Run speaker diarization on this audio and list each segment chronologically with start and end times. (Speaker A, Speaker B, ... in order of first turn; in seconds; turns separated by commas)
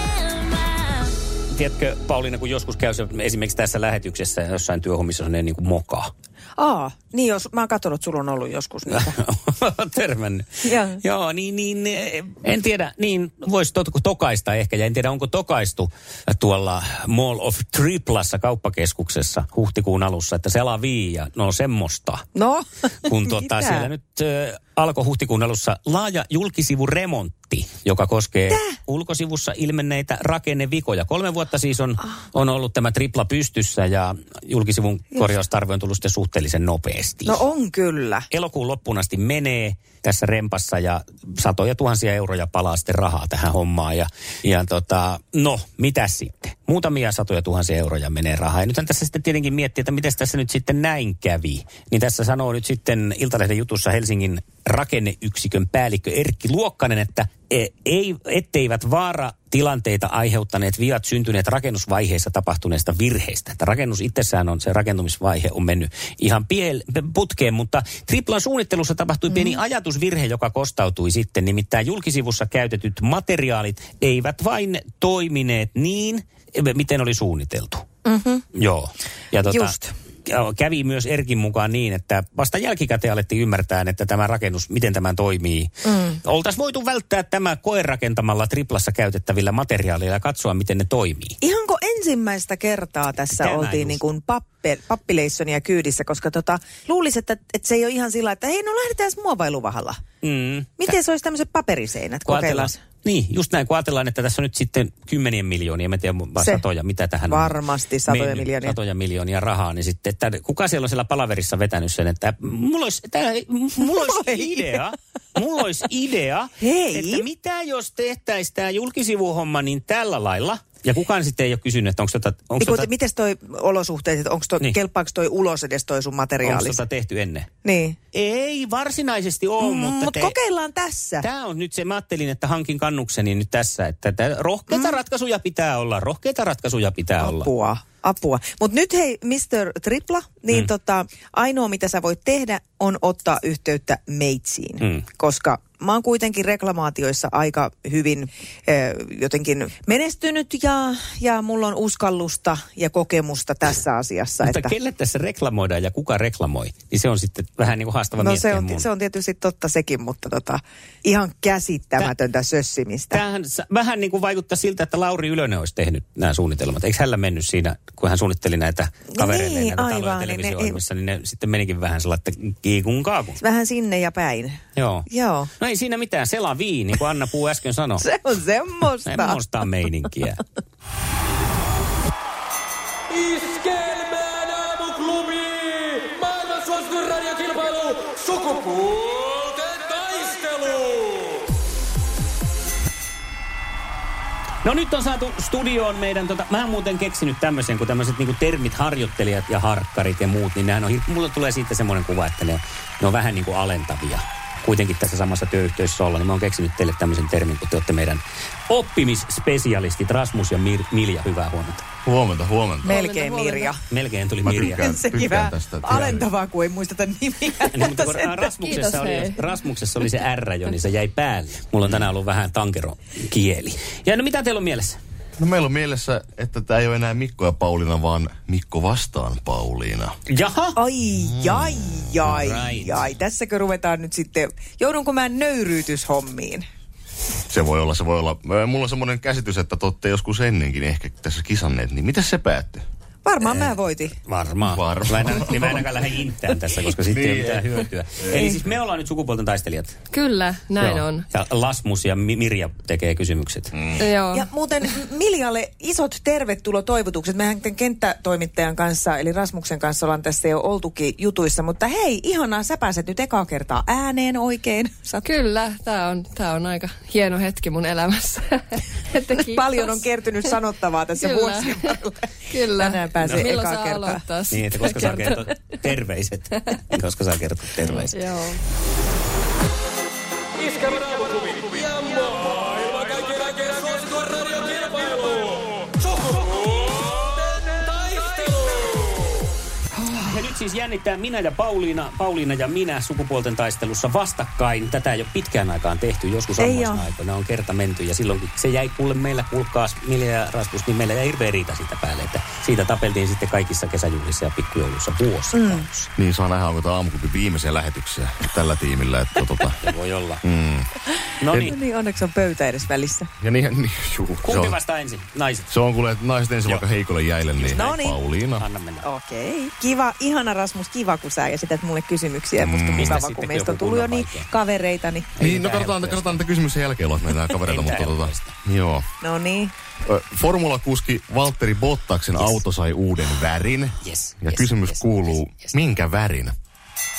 Speaker A: 1.5-6.1, Speaker B: 6.6-9.2, Speaker A: 8.9-22.2, Speaker B: 10.7-11.0, Speaker B: 22.4-23.9, Speaker A: 23.1-37.4, Speaker B: 28.5-28.8, Speaker B: 37.2-38.3, Speaker A: 38.3-77.8, Speaker B: 78.0-78.4, Speaker A: 78.5-91.4, Speaker B: 79.5-79.9, Speaker B: 85.9-86.2, Speaker B: 91.4-100.0, Speaker A: 93.3-94.0, Speaker A: 100.2-100.9, Speaker B: 100.8-102.8, Speaker A: 102.3-107.6, Speaker B: 107.3-108.8, Speaker A: 108.1-122.9, Speaker B: 113.8-114.6, Speaker B: 116.6-117.2, Speaker B: 122.6-126.8, Speaker A: 126.4-127.5, Speaker B: 127.6-128.0, Speaker A: 128.1-130.3, Speaker B: 129.6-131.3, Speaker A: 131.2-137.5, Speaker B: 134.7-135.0, Speaker B: 137.2-154.7, Speaker A: 154.4-158.9, Speaker B: 158.2-163.2, Speaker A: 163.1-173.4, Speaker B: 169.1-170.8, Speaker B: 173.4-175.5, Speaker A: 174.8-175.1, Speaker A: 175.6-178.1, Speaker B: 178.0-179.4, Speaker A: 179.1-180.4, Speaker C: 183.2-191.2, Speaker A: 194.6-211.8, Speaker D: 212.1-213.0, Speaker B: 212.8-213.8, Speaker E: 212.8-213.7, Speaker A: 213.9-214.8, Speaker D: 214.4-216.3, Speaker B: 214.7-218.4, Speaker A: 217.7-225.0, Speaker E: 218.6-219.5, Speaker D: 225.4-230.2, Speaker A: 230.3-230.8, Speaker B: 230.8-236.6, Speaker D: 231.3-232.0, Speaker A: 232.2-233.1, Speaker D: 237.5-242.8, Speaker B: 243.2-244.2, Speaker A: 243.4-250.0, Speaker D: 244.6-245.9, Speaker D: 247.1-248.3, Speaker B: 248.3-248.6, Speaker E: 250.1-251.3, Speaker A: 250.8-253.7, Speaker D: 253.7-254.1, Speaker E: 254.0-254.5, Speaker B: 254.3-265.3, Speaker E: 265.2-270.0, Speaker B: 269.4-274.2, Speaker E: 271.2-272.0, Speaker E: 272.5-275.5, Speaker A: 274.5-278.2, Speaker E: 278.0-278.6, Speaker C: 280.7-287.1, Speaker C: 287.9-288.9, Speaker A: 290.2-306.1, Speaker B: 296.6-297.1, Speaker B: 305.5-305.9, Speaker D: 306.2-309.8, Speaker A: 309.8-310.4, Speaker D: 310.4-310.9, Speaker A: 311.4-311.8, Speaker D: 311.5-311.8, Speaker B: 311.5-313.3, Speaker D: 313.4-314.8, Speaker A: 314.4-315.7, Speaker D: 315.7-318.6, Speaker A: 317.4-318.0, Speaker B: 317.7-318.2, Speaker A: 318.6-319.1, Speaker B: 319.0-325.3, Speaker D: 322.6-323.2, Speaker A: 322.9-324.5, Speaker A: 325.4-326.4, Speaker D: 325.4-329.1, Speaker A: 327.6-328.5, Speaker B: 329.2-329.7, Speaker D: 330.1-336.5, Speaker A: 332.4-332.6, Speaker A: 334.0-335.8